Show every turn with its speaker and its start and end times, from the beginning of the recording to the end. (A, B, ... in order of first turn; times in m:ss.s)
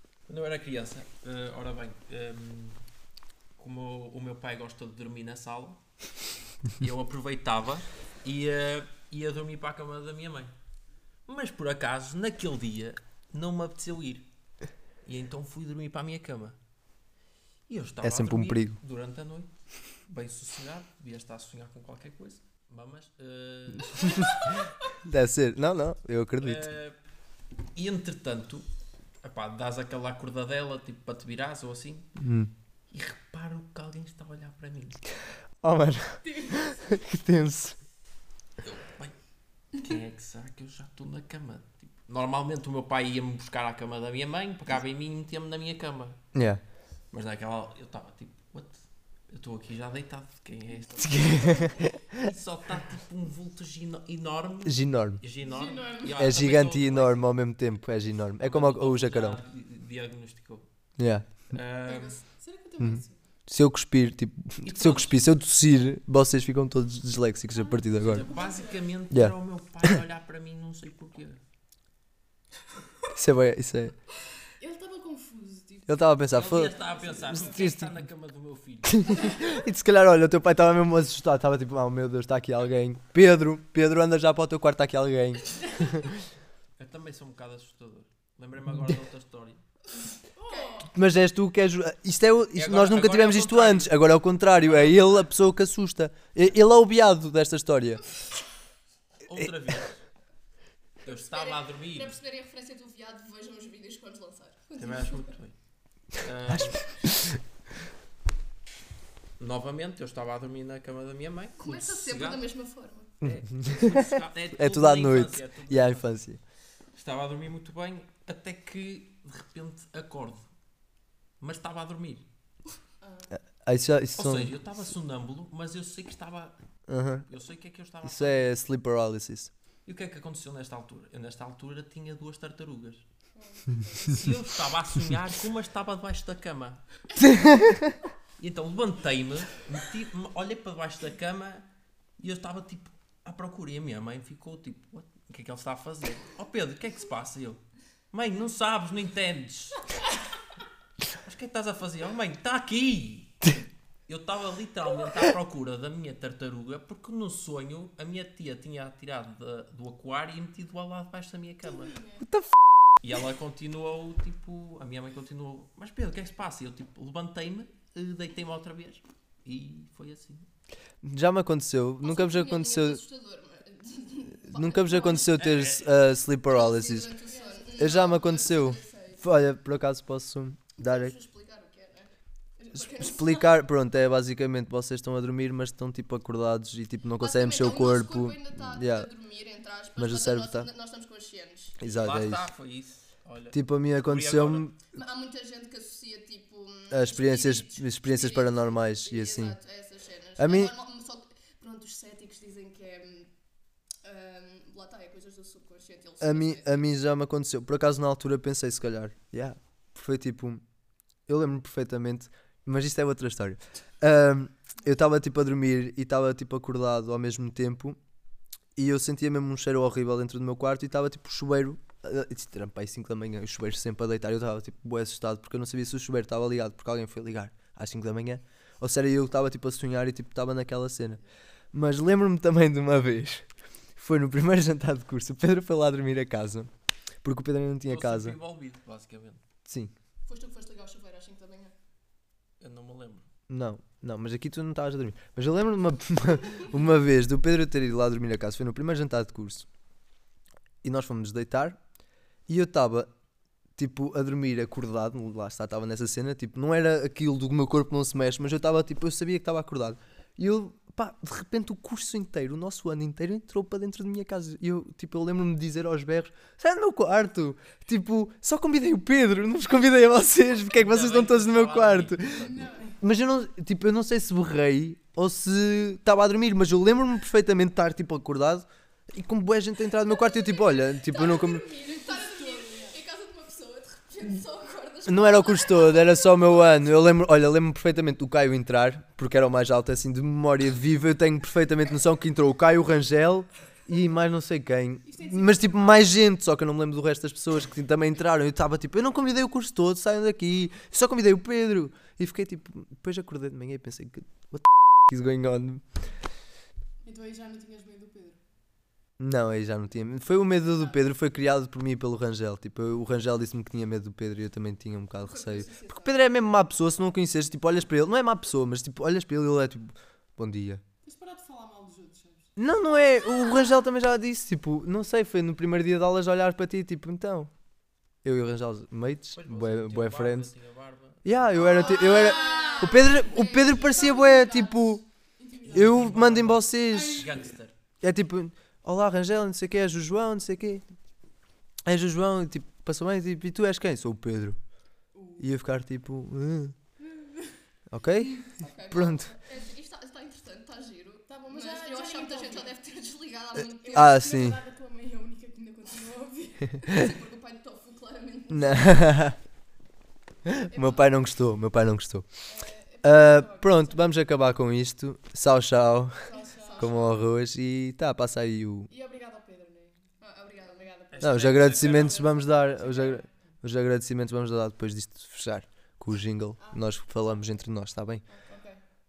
0:00.3-0:02.8 A
0:03.6-0:05.8 A
0:06.8-0:10.5 A
0:11.2-0:14.3 A
0:15.0-0:16.6 A
0:17.7-0:19.5 A
0:18.0-0:18.8 B
0:20.0-0:24.5 A
0:23.9-0:24.4 B
0:24.0-0:24.6 C
0:25.0-0:26.7 B
0:26.4-0:27.0 A
0:27.7-0:28.6 A
0:29.2-0:32.1 A
0:32.2-0:32.5 B
0:32.9-0:35.0 A
0:35.6-0:37.8 B
0:36.2-0:36.6 C
0:38.6-0:39.2 A
0:39.7-0:46.2 A
0:46.3-0:46.6 B
0:47.1-0:51.3 A
0:51.0-0:52.0 B
0:51.1-0:51.7 C
0:52.1-0:57.3 A
0:54.6-0:55.2 B
0:55.4-0:56.2 C
0:56.2-0:59.4 B
0:58.4-1:00.6 A
1:01.0-1:01.4 B
1:01.5-1:02.2 A
1:01.8-1:03.2 C
1:02.8-1:08.2 B
1:04.6-1:05.2 A
1:07.5-1:08.9 C
1:08.0-1:11.4 A
1:09.1-1:10.0 B
1:13.1-1:14.0 B
1:14.6-1:17.7 C
1:15.8-1:16.8 B
1:16.3-1:19.3 A
1:17.4-1:17.9 B
1:18.9-1:26.1 B
1:26.8-1:29.6 A
1:30.4-1:30.9 C
1:30.4-1:30.9 D
1:30.9-1:38.0 B
1:32.5-1:34.0 A
1:34.5-1:35.3 A
1:39.2-1:40.0 A
1:41.0-1:42.2 A
1:41.0-1:45.3 D
1:44.8-1:45.5 A
1:46.1-1:46.9 A
1:46.5-1:47.4 B
1:49.4-1:52.4 A
1:51.6-1:53.1 D
1:53.2-1:56.1 A
1:53.2-1:56.4 B
1:56.9-2:00.5 A
2:01.4-2:02.2 A
2:03.0-2:03.3 D
2:03.3-2:04.5 B
2:04.2-2:06.6 A
2:06.9-2:07.2 B
2:07.3-2:08.5 A
2:08.0-2:09.5 B
2:09.8-2:13.0 A
2:13.4-2:14.2 D
2:14.1-2:16.8 A
2:17.2-2:18.0 B
2:18.4-2:21.7 A
2:22.2-2:29.9 A
2:31.2-2:33.5 A
2:34.1-2:42.0 A
2:43.0-2:50.4 A
2:51.0-2:53.0 B
2:52.0-2:55.3 D
2:54.5-2:57.1 B
2:55.2-2:55.9 A
2:56.4-2:59.3 D
2:57.2-2:58.0 C
2:57.8-3:01.1 B
3:00.8-3:03.6 D
3:02.7-3:09.1 B
3:07.2-3:11.8 D
3:10.0-3:10.7 B
3:11.8-3:12.4 B
3:11.9-3:14.7 A
3:13.5-3:14.8 B
3:14.9-3:23.3 D
3:16.9-3:19.6 B
3:20.4-3:20.7 B
3:24.0-3:26.9 D
3:26.2-3:30.6 B
3:31.3-3:38.0 B
3:38.8-3:51.2 B
3:51.7-3:53.4 B
3:54.0-3:56.7 B
3:57.2-3:58.4 B
3:57.8-3:59.4 A
3:59.6-3:59.9 B
4:00.2-4:01.7 D
4:02.6-4:03.3 A
4:03.5-4:09.7 B
4:10.8-4:11.8 B
4:12.5-4:13.1 B
4:13.8-4:41.7 B
4:30.7-4:32.6 A
4:32.3-4:33.0 C
4:40.3-4:46.9 D
4:41.1-4:43.0 C
4:45.0-5:05.8 B
4:55.0-4:56.1 C
5:07.0-5:08.4 C
5:09.2-5:20.8 B
5:15.2-5:16.2 D
5:21.0-5:22.5 C
5:22.6-5:27.5 B
5:28.2-5:30.5 B
5:29.4-5:31.7 A
5:31.2-5:35.0 B
5:31.6-5:37.4 C
5:31.7-5:33.2 D
5:35.7-5:37.3 B
5:35.7-5:37.7 A
5:38.0-5:40.8 B
5:41.8-5:44.6 B
5:45.1-5:45.5 C
5:45.4-5:46.7 B
5:47.0-5:47.6 C
5:47.9-5:49.3 B
5:48.6-5:54.2 D
5:51.3-5:52.7 C
5:53.6-5:56.9 C
5:53.9-5:54.6 B
5:56.8-5:59.3 D
5:58.5-5:59.4 B
6:00.5-6:02.2 B
6:02.5-6:04.1 C
6:03.0-6:06.2 B
6:06.2-6:07.2 C
6:06.3-6:07.0 D
6:06.8-6:08.9 B
6:08.9-6:10.0 C
6:10.2-6:10.9 D
6:10.6-6:13.3 C
6:11.1-6:12.3 A
6:11.2-6:18.2 B
6:16.6-6:16.9 C
6:18.3-6:18.8 C